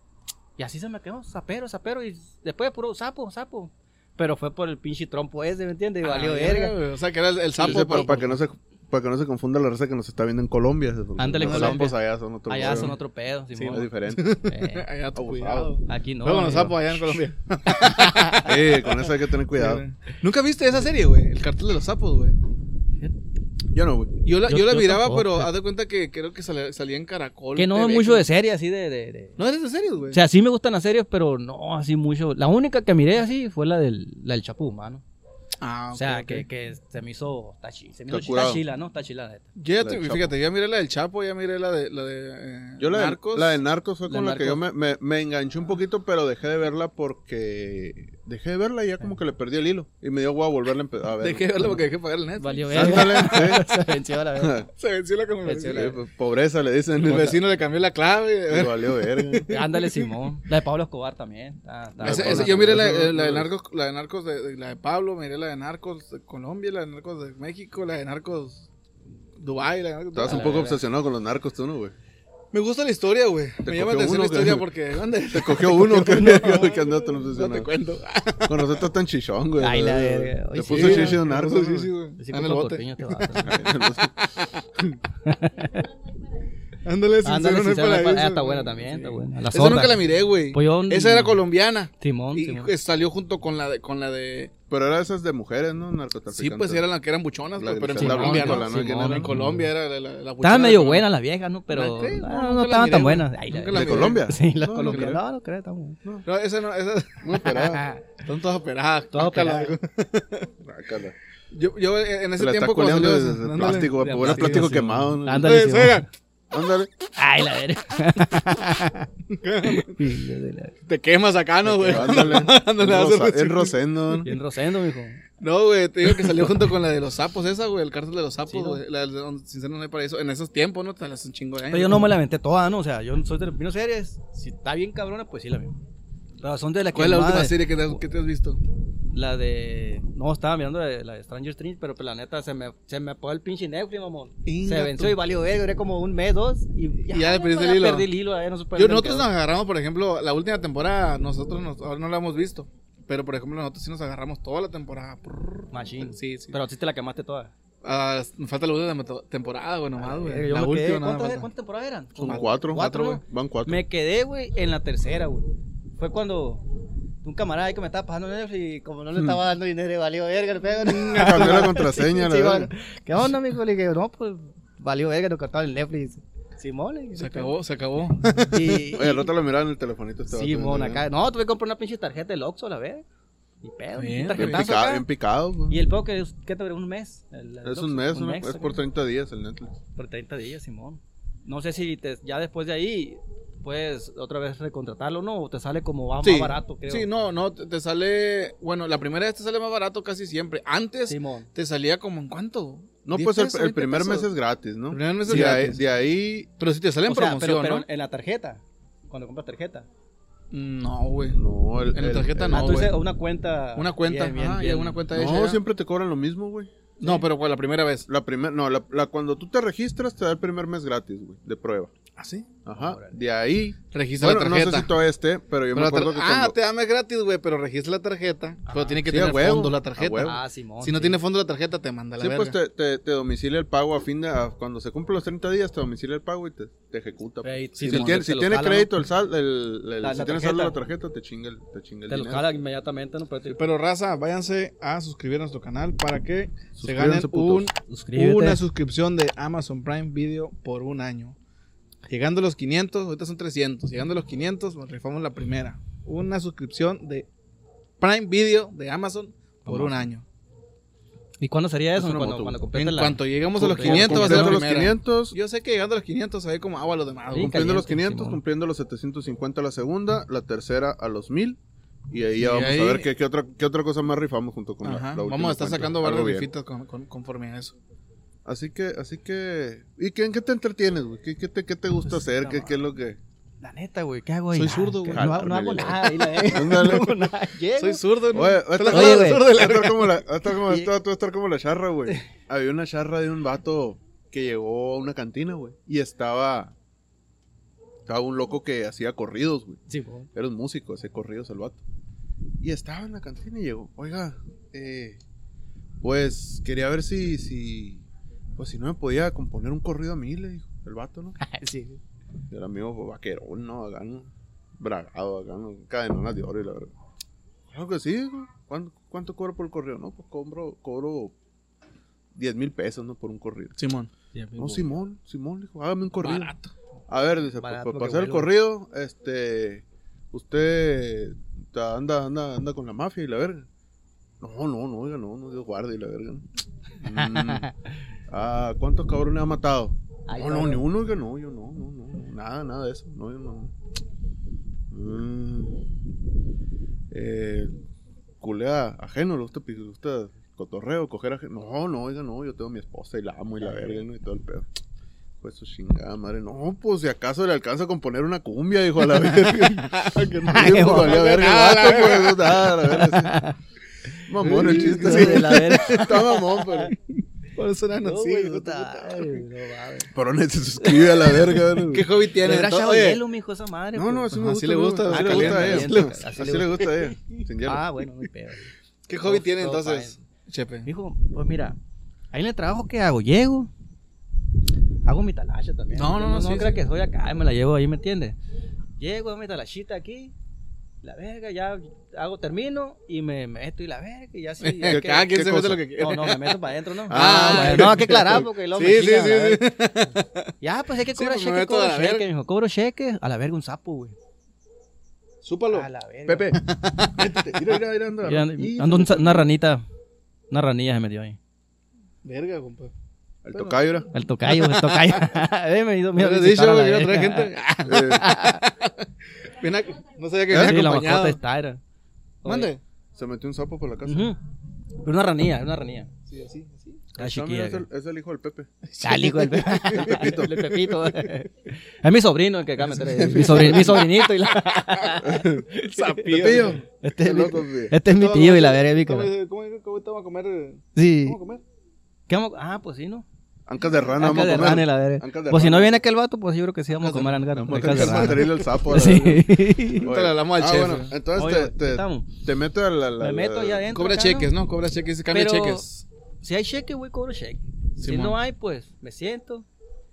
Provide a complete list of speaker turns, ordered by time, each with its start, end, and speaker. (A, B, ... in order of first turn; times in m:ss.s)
0:00.6-0:06.8 A
0:06.0-0:08.4 B
0:07.6-0:08.2 A
0:07.6-0:13.0 C
0:11.2-0:13.9 A
0:11.4-0:11.8 B
0:12.6-0:13.0 B
0:13.5-0:18.9 B
0:13.7-0:14.4 C
0:14.4-0:14.9 A
0:15.1-0:15.7 C
0:15.8-0:17.2 A
0:17.7-0:18.5 A
0:18.4-0:19.8 C
0:19.5-0:22.4 B
0:23.7-0:24.1 C
0:24.2-0:28.3 B
0:24.5-0:25.5 A
0:27.6-0:29.4 A
0:29.4-0:30.2 B
0:30.1-0:35.0 A
0:35.6-0:36.4 B
0:35.9-0:39.5 A
0:38.1-0:38.6 C
0:39.6-0:43.6 B
0:39.8-0:40.4 C
0:42.8-0:51.8 C
0:44.1-0:44.6 A
0:51.2-0:53.7 B
0:52.4-0:54.6 A
0:52.7-0:53.6 C
0:54.4-0:54.7 C
0:54.8-0:56.0 B
0:55.4-0:56.0 A
0:55.7-0:57.4 C
0:57.0-1:00.1 B
0:58.5-0:59.5 C
0:59.5-1:02.9 A
1:02.0-1:03.5 C
1:02.0-1:08.6 B
1:09.4-1:10.8 B
1:10.1-1:11.9 C
1:10.2-1:10.8 A
1:12.5-1:18.8 B
1:13.6-1:14.7 C
1:15.3-1:17.7 C
1:18.5-1:21.9 C
1:19.6-1:21.2 A
1:20.7-1:23.6 B
1:22.2-1:23.6 A
1:23.4-1:24.2 C
1:25.2-1:25.9 A
1:26.8-1:34.5 B
1:27.2-1:31.4 A
1:32.0-1:32.7 A
1:34.7-1:36.8 C
1:36.3-1:41.1 B
1:37.5-1:39.3 C
1:38.0-1:39.7 A
1:40.4-1:46.0 A
1:41.7-1:44.2 B
1:43.7-1:45.2 C
1:44.8-1:45.1 B
1:46.2-1:47.4 B
1:47.2-1:47.8 C
1:47.5-1:48.0 A
1:48.2-1:50.5 B
1:49.1-1:49.8 A
1:50.6-1:51.1 C
1:51.5-1:54.8 B
1:52.4-1:55.6 C
1:54.0-1:56.0 A
1:55.4-1:56.1 B
1:56.5-1:56.9 C
1:57.2-1:59.1 A
1:59.3-2:00.0 B
1:59.6-2:00.7 A
2:00.9-2:04.2 B
2:01.7-2:04.3 C
2:01.7-2:02.1 A
2:04.2-2:05.2 A
2:05.4-2:12.1 B
2:08.5-2:08.8 A
2:11.7-2:15.8 A
2:16.4-2:18.0 A
2:16.9-2:18.6 B
2:19.1-2:29.3 A
2:24.4-2:25.2 B
2:27.0-2:28.1 B
2:28.7-2:36.6 B
2:35.7-2:37.5 A
2:37.8-2:41.5 B
2:40.0-2:46.6 A
2:42.2-2:43.8 C
2:47.2-2:57.5 A
2:51.0-2:52.7 C
2:57.2-2:58.8 B
2:58.5-2:59.3 A
2:58.6-3:01.0 C
3:00.3-3:03.0 A
3:03.6-3:05.0 A
3:04.0-3:04.7 B
3:04.4-3:05.8 C
3:05.7-3:08.8 A
3:07.6-3:09.8 C
3:10.0-3:17.1 A
3:16.2-3:24.3 B
3:21.1-3:21.5 A
3:23.0-3:26.5 C
3:24.9-3:25.8 B
3:26.6-3:27.8 B
3:27.1-3:29.9 A
3:30.5-3:31.4 B
3:31.3-3:32.8 C
3:31.9-3:33.0 B
3:32.5-3:35.0 A
3:33.8-3:35.6 B
3:35.1-3:36.7 C
3:37.0-3:38.1 B
3:38.1-3:41.9 C
3:42.2-3:42.5 B
3:42.6-3:46.6 C
3:42.7-3:43.2 A
3:43.9-3:44.9 B
3:45.7-3:52.6 B
3:48.7-3:49.3 A
3:49.0-3:50.4 C
3:50.2-3:51.2 A
3:52.2-4:02.4 C
3:57.4-3:58.9 A
3:57.8-3:58.3 B
4:00.0-4:00.8 A
4:02.1-4:03.6 A
4:03.5-4:11.4 B
4:06.8-4:07.7 C
4:07.9-4:08.6 A
4:12.1-4:17.3 B
4:18.0-4:20.2 B
4:21.4-4:24.6 A
4:21.9-4:22.6 C
4:22.7-4:27.6 B
4:23.6-4:25.4 C
4:27.3-4:28.4 A
4:27.4-4:31.6 C
4:32.1-4:36.5 C
4:32.4-4:33.1 B
4:34.8-4:37.8 B
4:38.4-4:43.2 C
4:42.1-4:42.7 A
4:43.6-4:48.0 A
4:44.5-4:45.3 B
4:45.1-4:47.2 C
4:47.8-4:50.2 B
4:48.3-4:56.7 C
4:48.8-4:49.4 A
4:58.0-4:59.8 C
4:59.9-5:00.3 A
5:00.3-5:01.8 C
5:02.6-5:05.2 C
5:06.0-5:08.0 C
5:08.6-5:11.4 C
5:11.4-5:12.0 A
5:12.5-5:16.9 C
5:17.7-5:21.3 C
5:22.3-5:23.8 C
5:23.8-5:24.1 B
5:24.3-5:24.9 A
5:24.6-5:26.5 C
5:26.2-5:26.7 B
5:27.1-5:33.7 C
5:27.6-5:28.5 A
5:34.4-5:36.4 C
5:37.0-5:37.7 C
5:37.1-5:37.8 A
5:38.3-5:43.7 C
5:40.3-5:40.9 A
5:44.9-5:45.9 C
5:47.1-5:47.7 C
5:48.4-5:54.7 C
5:53.6-5:54.0 A
5:55.4-6:03.4 C
5:59.2-6:02.7 B
6:00.5-6:01.2 A
6:02.8-6:03.6 A
6:04.2-6:06.9 C
6:04.4-6:06.0 B
6:04.4-6:06.9 A
6:07.5-6:09.4 B
6:08.0-6:10.1 A
6:10.1-6:12.1 C
6:10.8-6:11.5 A
6:11.9-6:13.2 B
6:12.4-6:14.5 A
6:13.9-6:17.8 C
6:14.4-6:16.2 B
6:15.1-6:16.9 A
6:17.6-6:18.7 A
6:19.1-6:20.9 B
6:19.2-6:20.2 A
6:20.8-6:21.8 A
6:22.3-6:23.7 A
6:25.0-6:28.4 A
6:25.9-6:26.8 B
6:29.0-6:30.3 A
6:31.0-6:35.3 A
6:34.6-6:40.5 B
6:34.8-6:35.8 C
6:36.0-6:39.7 A
6:37.1-6:38.4 C
6:40.6-6:44.2 A
6:41.1-6:42.3 B
6:45.4-6:45.9 B
6:45.7-6:46.6 A
6:46.3-6:46.6 C
6:46.6-6:47.2 B
6:47.1-6:49.5 C
6:48.2-6:49.8 A
6:50.5-6:51.4 A
6:52.2-6:52.9 B
6:53.4-6:54.1 C
6:54.1-6:58.7 A
6:54.5-6:55.4 B
6:56.2-7:01.4 B
6:57.8-6:58.3 C
7:00.5-7:00.8 C
7:00.5-7:01.8 A
7:02.4-7:02.7 A
7:02.4-7:02.8 B
7:03.1-7:04.3 C
7:04.0-7:04.4 A
7:05.0-7:06.1 A
7:06.3-7:07.0 B
7:07.1-7:08.7 C
7:07.2-7:07.8 A
7:08.8-7:11.3 B
7:09.0-7:19.3 A
7:09.9-7:10.7 C
7:12.9-7:15.1 B
7:13.0-7:14.2 C
7:15.2-7:15.7 C
7:15.8-7:16.8 B
7:16.2-7:17.9 C
7:18.1-7:21.6 B
7:21.0-7:21.4 A
7:22.3-7:23.2 A
7:23.7-7:26.0 C
7:24.1-7:30.1 A
7:27.0-7:28.5 B
7:27.5-7:33.9 C
7:30.0-7:31.1 B
7:31.3-7:32.3 A
7:33.2-7:34.5 A
7:33.9-7:36.0 B
7:35.3-7:35.8 A
7:36.4-7:39.7 A
7:38.0-7:38.4 B